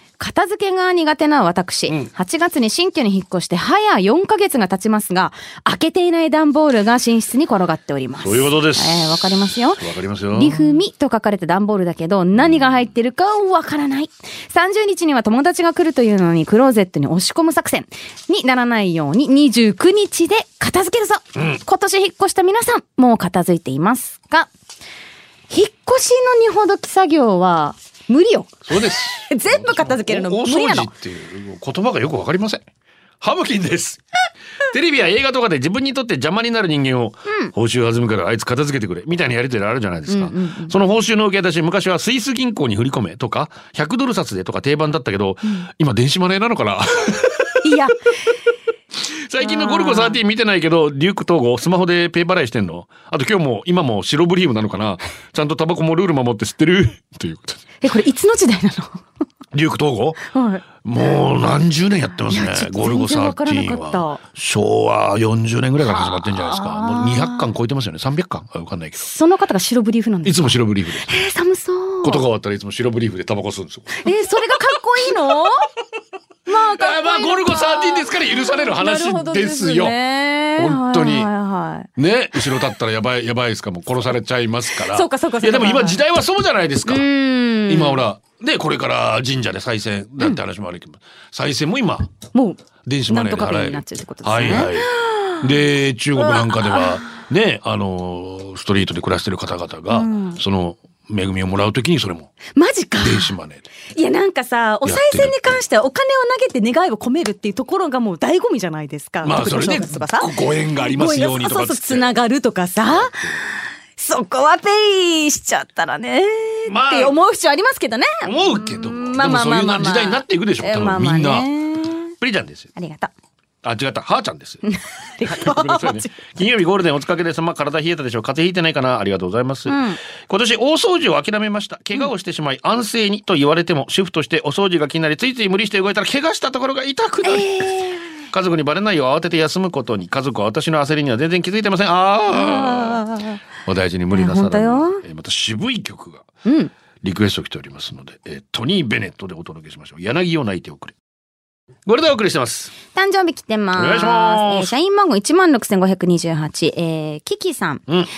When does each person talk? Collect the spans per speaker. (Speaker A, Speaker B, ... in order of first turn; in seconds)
Speaker A: 0.2-24.5, 25.5-28.6, 29.3-30.9, 40.1-40.7, 47.6-48.1, 49.4-50.2, 57.8-59.0, 60.2-60.6, 62.3-64.2, 65.8-67.5, 69.0-72.2, 74.0-75.6, 76.5-81.9, 84.7-86.0, 86.8-88.0, 92.3-95.5, 96.2-97.1, 99.9-100.4, 102.5-103.3, 103.9-110.3, 110.8-113.2, 114.0-122.1, 122.8-123.1, 124.7-126.3, 129.7-130.0, 137.2-138.1, 142.3-143.4, 144.1-145.0, 146.4-146.7, 152.9-157.8
Speaker B: 8.2-9.2, 9.8-10.7, 21.3-21.6, 28.6-32.6, 33.2-34.0, 34.7-47.8, 49.0-57.6, 59.5-60.2, 60.8-69.1, 70.2-71.1, 72.0-74.0, 76.5-80.0, 80.6-81.3, 82.0-87.0, 87.7-92.1, 92.8-94.9, 95.4-102.3, 103.0-103.7, 104.8-105.6, 109.2-112.1, 112.8-113.5, 116.7-117.2, 118.2-121.5, 122.2-122.7, 123.6-124.6, 125.2-137.6, 138.3-143.0, 143.6-146.3, 147.0-150.9, 151.8-152.7, 153.7-154.7